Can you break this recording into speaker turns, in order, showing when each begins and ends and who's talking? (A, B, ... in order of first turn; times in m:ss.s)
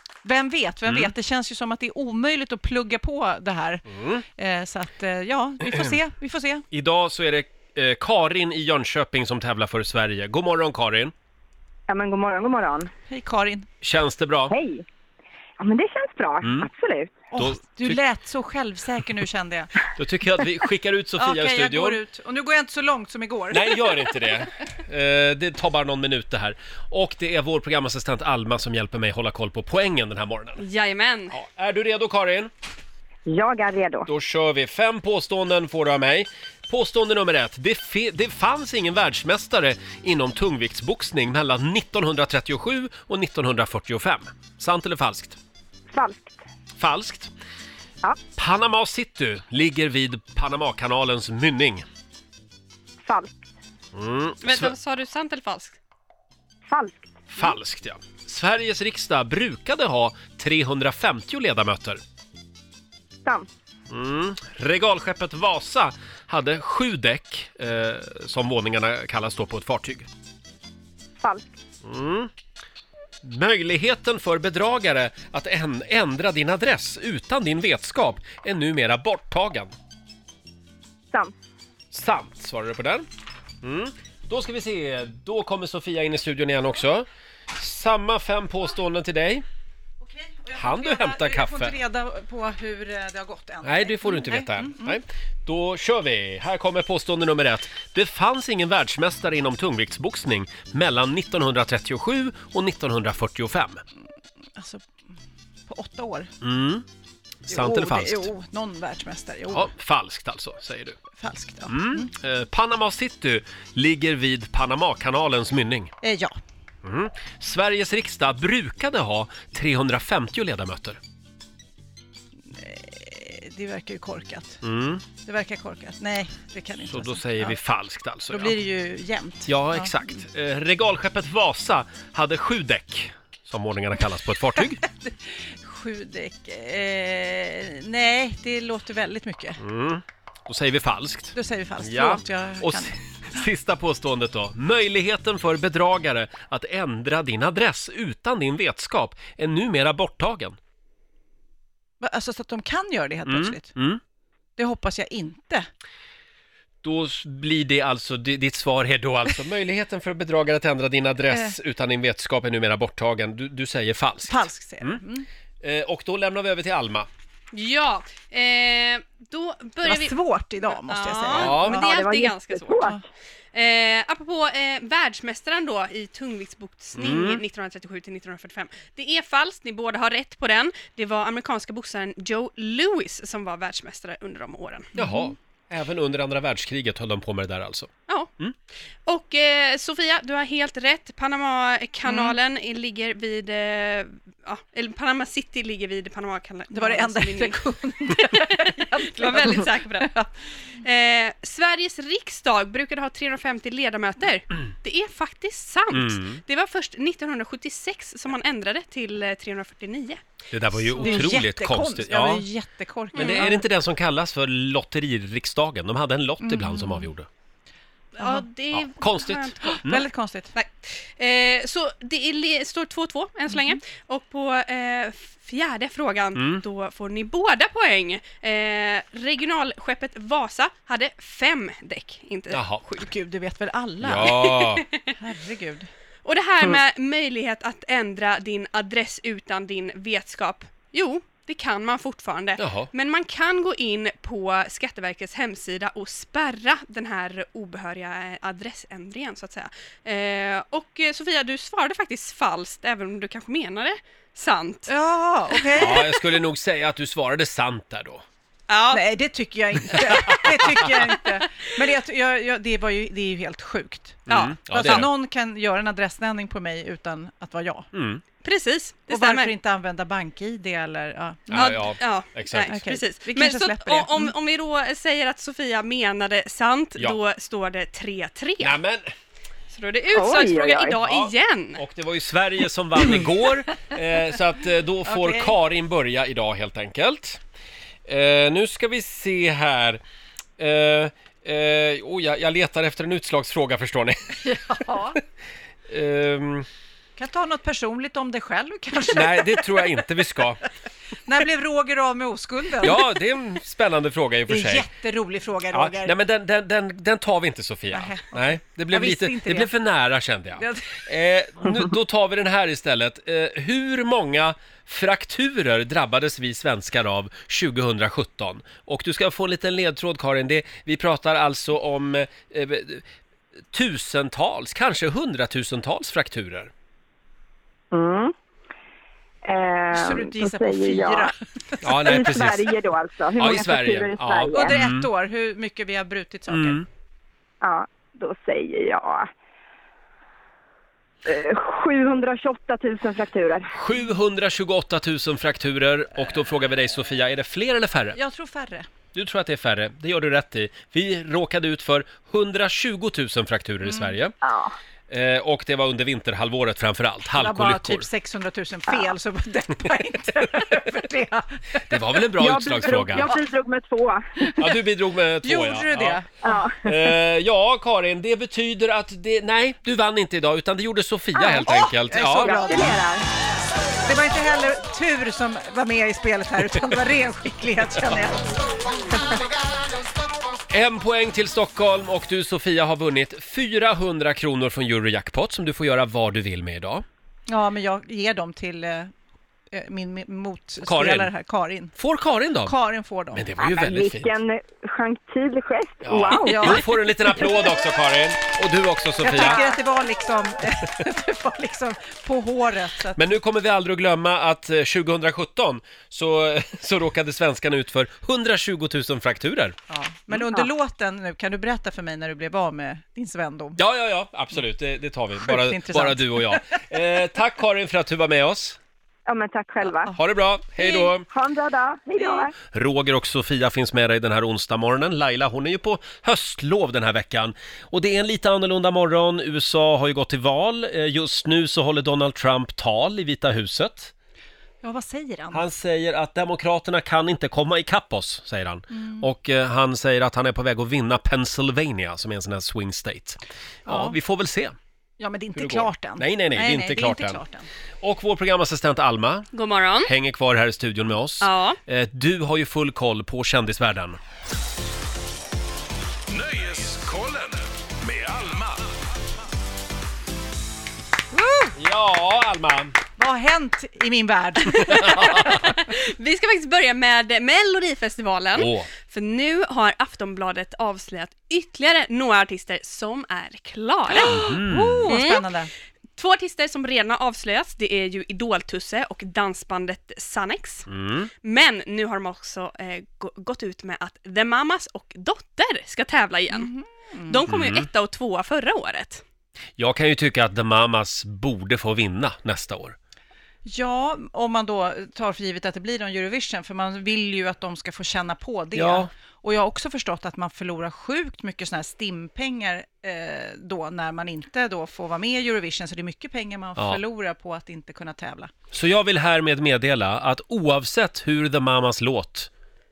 0:00.2-0:06.6 A
0:03.9-0:04.2 B
0:06.7-0:11.1 B
0:11.9-0:12.9 C
0:13.1-0:13.7 A
0:13.8-0:14.6 B
0:14.5-0:14.9 C
0:15.6-0:17.2 C
0:16.4-0:16.7 B
0:17.3-0:19.8 A
0:17.4-0:18.0 B
0:19.9-0:22.0 B
0:21.2-0:24.1 A
0:23.5-0:30.6 B
0:30.6-0:31.3 D
0:31.3-0:32.5 B
0:33.3-0:34.1 C
0:34.1-0:45.4 B
0:45.9-0:46.4 C
0:46.8-0:47.3 B
0:48.4-0:51.8 B
0:53.0-0:53.3 C
0:53.9-0:54.7 B
0:54.4-0:55.8 D
0:56.7-0:57.0 C
0:57.3-1:02.0 B
1:03.9-1:10.1 B
1:11.8-1:12.3 B
1:13.2-1:19.7 B
1:21.9-1:23.1 B
1:23.6-1:29.4 B
1:30.0-1:35.0 A
1:30.6-1:31.8 B
1:33.6-1:43.8 B
1:44.6-1:44.9 A
1:45.7-1:46.3 A
1:46.4-1:46.8 B
1:47.5-1:48.3 B
1:47.5-1:49.7 A
1:49.5-1:51.0 B
1:51.1-1:52.1 A
1:51.7-1:55.9 B
1:56.0-1:56.4 A
1:56.8-2:01.0 B
2:02.5-2:04.6 A
2:04.6-2:05.0 B
2:05.2-2:07.6 A
2:06.9-2:08.6 B
2:08.3-2:09.9 A
2:09.5-2:14.8 B
2:14.8-2:19.6 A
2:19.6-2:30.6 B
2:21.3-2:23.0 A
2:32.0-2:33.7 A
2:33.3-2:34.0 B
2:34.6-2:35.7 A
2:36.8-2:45.0 B
2:41.3-2:41.6 A
2:44.3-2:45.3 A
2:45.6-2:47.1 B
2:47.5-2:50.2 D
2:49.8-2:52.0 A
2:50.7-2:53.0 D
2:51.3-2:51.8 B
2:51.8-2:53.0 C
2:52.8-2:53.0 A
2:53.5-3:04.9 D
2:57.0-2:57.4 B
3:05.0-3:08.6 B
3:05.0-3:05.3 A
3:09.1-3:20.2 D
3:12.1-3:12.4 A
3:16.7-3:20.2 A
3:20.8-3:30.2 D
3:25.9-3:26.4 B
3:30.5-3:32.4 B
3:30.8-3:31.3 D
3:31.0-3:33.6 A
3:33.1-3:37.3 B
3:33.2-3:33.5 D
3:36.4-3:37.1 A
3:38.2-3:39.8 D
3:38.2-3:38.5 A
3:38.7-3:40.0 B
3:39.6-3:40.5 A
3:40.6-3:53.1 D
3:43.5-3:43.8 A
3:46.4-3:46.6 B
3:52.5-3:52.8 B
3:53.0-3:54.5 A
3:54.0-3:54.8 B
3:55.2-3:55.9 A
3:56.2-4:14.9 D
4:02.6-4:02.9 B
4:14.9-4:16.1 A
4:15.5-4:16.1 D
4:15.8-4:18.2 B
4:18.7-4:19.0 D
4:18.9-4:27.9 A
4:24.3-4:25.1 B
4:24.3-4:25.0 D
4:27.9-4:28.2 B
4:28.4-4:29.5 D
4:29.1-4:31.8 A
4:31.5-4:32.7 B
4:31.5-4:38.8 D
4:32.7-4:34.3 A
4:38.6-4:39.1 B
4:39.7-4:41.8 D
4:40.1-4:41.0 C
4:41.0-4:47.4 B
4:45.1-4:45.6 A
4:48.1-4:50.0 B
4:50.6-4:54.4 B
4:54.4-4:55.2 A
4:55.9-4:56.7 B
4:57.2-5:00.0 A
4:59.1-5:00.6 B
5:01.3-5:03.1 A
5:02.8-5:04.9 B
5:04.5-5:06.2 A
5:05.7-5:23.0 B
5:07.9-5:09.7 A
5:10.6-5:11.0 A
5:23.7-5:26.7 B
5:27.9-5:28.3 C
5:29.4-5:31.3 C
5:29.9-5:32.2 A
5:31.8-5:32.7 B
5:32.0-5:34.8 C
5:33.4-5:35.1 B
5:34.5-5:36.8 A
5:36.5-5:36.9 B
5:37.6-5:39.3 C
5:41.2-5:43.7 C
5:43.7-5:48.2 B
5:48.2-5:48.9 A
5:49.1-5:54.3 B
5:53.8-5:54.1 A
5:54.4-5:54.8 C
5:55.1-5:58.1 B
5:57.3-6:02.3 A
6:01.9-6:03.3 B
6:02.4-6:04.2 C
6:03.1-6:03.4 A
6:04.5-6:04.8 A
6:04.6-6:06.2 B
6:05.4-6:06.5 A
6:06.4-6:06.8 C
6:06.8-6:13.0 B
6:11.4-6:13.1 A
6:12.3-6:13.3 C
6:14.0-6:19.5 A
6:20.7-6:27.0 B
6:27.5-6:29.1 A
6:29.7-6:32.0 A
6:30.8-6:31.3 B
6:32.0-6:32.8 B
6:32.6-6:33.5 A
6:33.3-6:34.3 B
6:33.6-6:36.8 C
6:36.0-6:39.6 B
6:36.5-6:36.9 A
6:39.2-6:43.2 A
6:39.4-6:39.8 C
6:43.2-6:49.8 B
6:49.9-6:53.8 A
6:53.8-6:58.8 B
6:55.4-6:56.8 A
6:59.3-7:00.2 C
7:00.2-7:01.2 B
7:00.8-7:02.5 C
7:02.2-7:02.4 A
7:02.7-7:14.1 B
7:14.8-7:15.6 A
7:15.5-7:24.8 B
7:18.9-7:19.3 A
7:23.9-7:24.2 A
7:25.2-7:27.7 A
7:25.6-7:27.4 B
7:28.0-7:29.5 B
7:29.5-7:30.1 D
7:30.0-7:34.2 B
7:31.4-7:31.8 D
7:36.3-7:38.9 E
7:41.3-7:41.7 A
7:41.8-7:43.0 B
7:43.2-7:45.7 A
7:44.8-7:54.5 D
7:45.0-7:45.6 B
7:48.6-7:48.9 B
7:54.1-7:55.7 A
7:54.3-7:55.1 B
7:55.1-7:55.5 D
7:56.2-8:00.9 D
8:00.9-8:01.3 B
8:01.4-8:06.7 D
8:06.5-8:07.4 A
8:07.3-8:09.2 D
8:07.5-8:07.9 B
8:09.8-8:13.0 B
8:13.6-8:28.5 A
8:18.8-8:19.1 B
8:26.8-8:27.0 B
8:28.7-8:32.5 B